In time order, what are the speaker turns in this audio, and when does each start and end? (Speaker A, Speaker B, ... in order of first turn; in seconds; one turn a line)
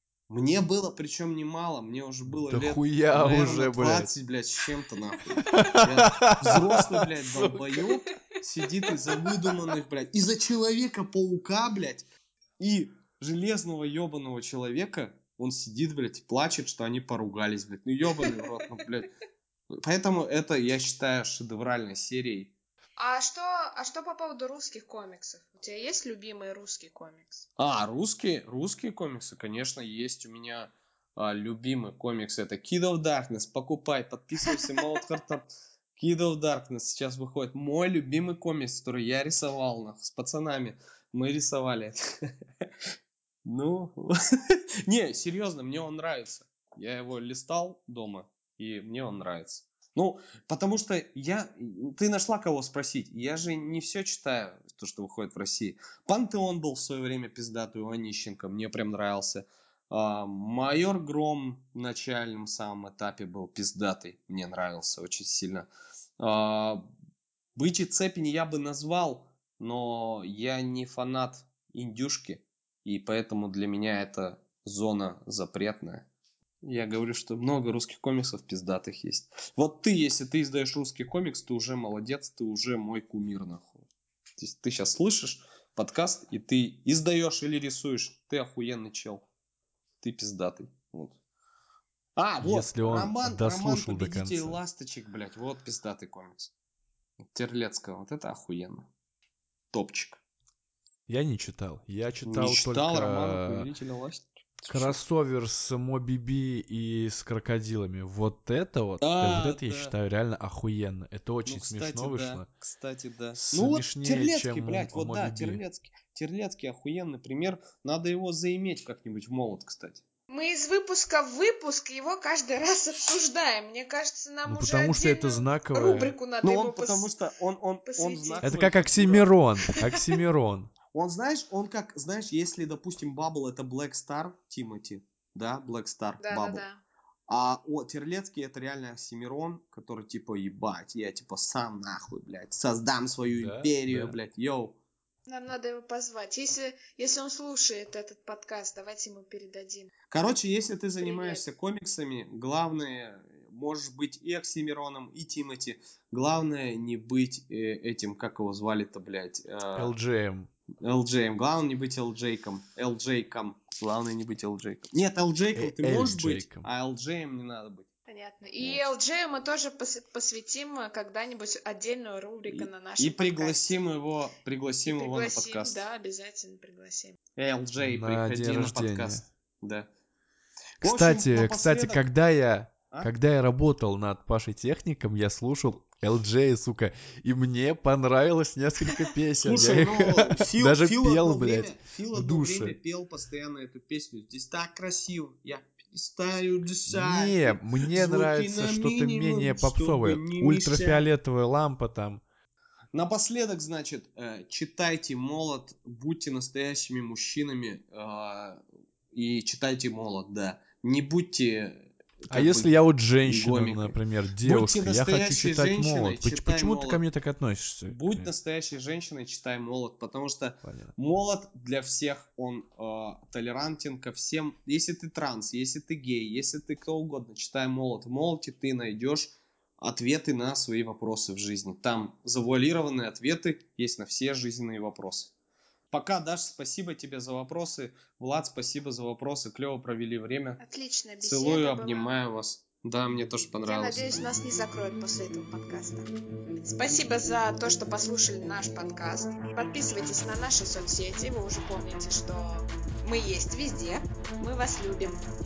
Speaker A: 0.3-12.1
Speaker B: 2.3-4.1
Speaker B: 5.4-7.8
Speaker C: 9.3-9.6
Speaker A: 12.6-19.1
Speaker A: 19.7-22.5
Speaker C: 23.0-27.5
Speaker A: 27.6-42.0
Speaker A: 43.5-65.7
Speaker A: 66.2-66.9
Speaker A: 67.6-76.1
Speaker A: 76.6-83.9
Speaker A: 84.4-89.3
Speaker A: 90.0-91.2
Speaker A: 92.2-96.5
Speaker B: 92.4-94.6
Speaker A: 97.2-98.9
Speaker A: 99.7-100.2
Speaker B: 101.1-103.7
Speaker A: 102.2-105.0
Speaker B: 104.7-112.5
Speaker A: 109.0-110.0
Speaker A: 111.5-120.0
Speaker B: 113.4-115.6
Speaker C: 120.3-127.1
Speaker B: 124.5-126.2
Speaker A: 126.4-129.3
Speaker C: 127.9-128.5
Speaker B: 128.4-130.7
Speaker C: 129.7-130.1
Speaker A: 130.9-136.6
Speaker C: 136.2-136.8
Speaker A: 137.3-144.8
Speaker B: 143.3-144.2
Speaker C: 145.3-149.9
Speaker A: 150.1-159.9
Speaker C: 151.0-151.4
Speaker B: 159.8-160.5
Speaker A: 160.8-167.9
Speaker B: 165.6-166.7
Speaker C: 168.1-173.8
Speaker A: 168.6-168.8
Speaker A: 172.5-175.8
Speaker C: 174.9-177.2
Speaker A: 177.4-179.9
Speaker B: 177.8-179.2
Speaker A: 180.8-182.1
Speaker B: 180.8-192.8
Speaker A: 189.4-201.1
Speaker B: 196.9-202.2
Speaker A: 202.9-217.0
Speaker B: 212.3-218.3
Speaker A: 217.9-235.3
Speaker B: 220.6-220.9
Speaker A: 235.9-240.6
Speaker C: 240.6-242.1
Speaker A: 241.2-244.1
Speaker C: 243.7-246.1
Speaker C: 246.6-255.2